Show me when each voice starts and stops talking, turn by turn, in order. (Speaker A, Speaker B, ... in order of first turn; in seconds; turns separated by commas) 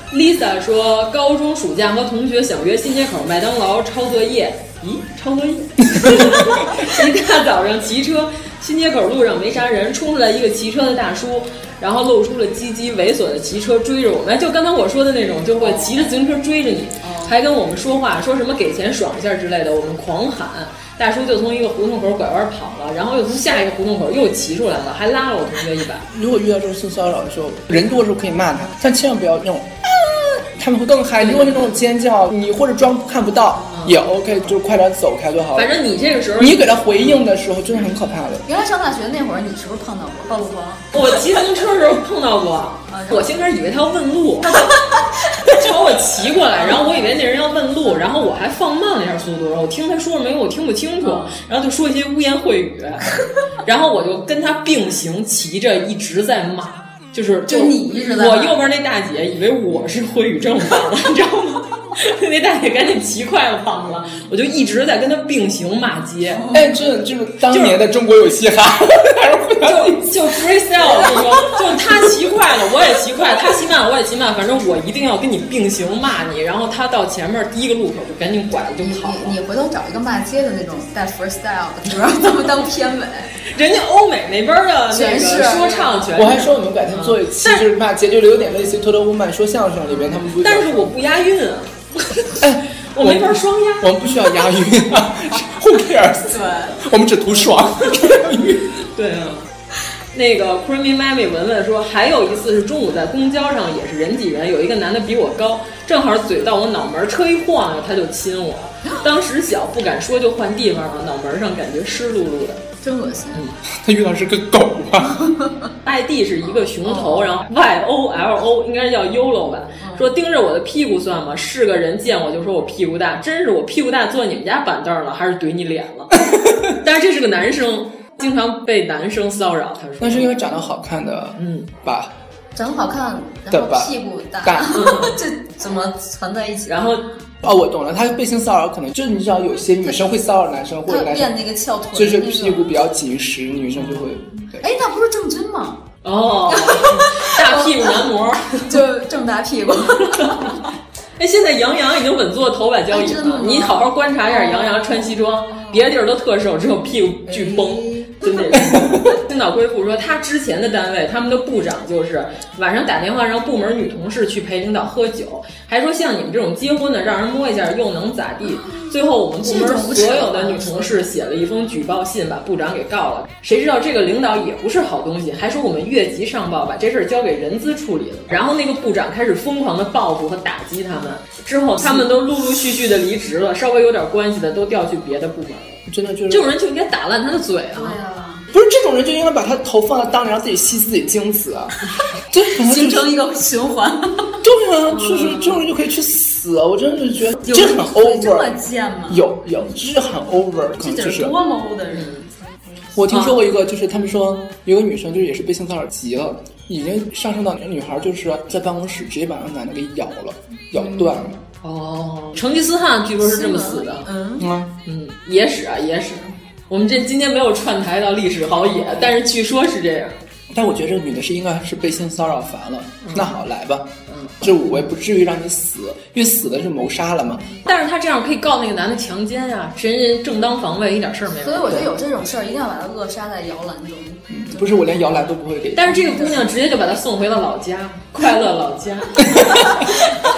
Speaker A: 0.1-26.1, Speaker B: 15.6-16.0, Speaker B: 17.0-17.3, Speaker C: 26.1-35.8, Speaker A: 31.2-31.7, Speaker A: 33.7-34.0, Speaker A: 35.5-37.2, Speaker C: 36.4-38.5, Speaker B: 38.5-40.9, Speaker A: 40.9-44.8, Speaker B: 42.9-43.3, Speaker B: 44.5-45.1, Speaker A: 45.4-66.5, Speaker B: 46.5-46.9, Speaker B: 51.0-51.3, Speaker B: 57.5-58.6, Speaker B: 66.3-66.7, Speaker C: 66.5-70.1, Speaker A: 67.5-67.8, Speaker A: 69.6-79.4, Speaker B: 78.8-83.3, Speaker A: 83.4-87.7, Speaker B: 84.9-86.0, Speaker C: 86.1-90.9, Speaker A: 90.4-94.0, Speaker C: 92.4-98.8, Speaker B: 96.3-96.8, Speaker A: 98.9-99.5, Speaker A: 100.1-112.6, Speaker B: 112.8-113.4, Speaker C: 113.7-115.3, Speaker B: 115.2-115.5, Speaker A: 115.8-126.2, Speaker B: 116.8-117.3, Speaker B: 119.8-120.1, Speaker C: 126.2-126.7, Speaker A: 126.8-130.3, Speaker C: 130.0-132.1, Speaker A: 131.3-131.7, Speaker B: 132.6-136.8, Speaker C: 133.5-134.8, Speaker A: 134.7-135.2, Speaker A: 136.7-137.1, Speaker C: 137.4-141.4, Speaker B: 140.9-142.8, Speaker C: 141.9-144.7, Speaker A: 143.7-144.1, Speaker B: 144.6-145.8, Speaker A: 146.0-148.8, Speaker B: 146.5-147.9, Speaker B: 148.7-150.7, Speaker A: 150.1-150.5, Speaker A: 151.2-188.0, Speaker B: 152.9-155.9, Speaker B: 157.3-158.5, Speaker B: 169.4-171.1, Speaker C: 185.9-186.5, Speaker B: 187.8-188.4, Speaker C: 188.5-191.8, Speaker C: 192.3-193.1, Speaker B: 192.6-194.3, Speaker C: 194.4-201.3, Speaker A: 194.9-195.5, Speaker B: 197.4-199.3, Speaker B: 200.8-202.2, Speaker A: 201.9-202.2, Speaker C: 202.9-211.4, Speaker B: 210.7-211.2, Speaker A: 211.6-214.1, Speaker B: 213.2-214.4, Speaker C: 214.4-214.8, Speaker A: 214.8-220.2, Speaker C: 220.5-227.4, Speaker A: 223.0-223.3, Speaker A: 224.1-224.4, Speaker A: 227.7-231.8, Speaker B: 231.4-234.9, Speaker C: 234.3-236.2, Speaker A: 235.7-239.4, Speaker B: 236.0-236.4, Speaker C: 239.2-239.9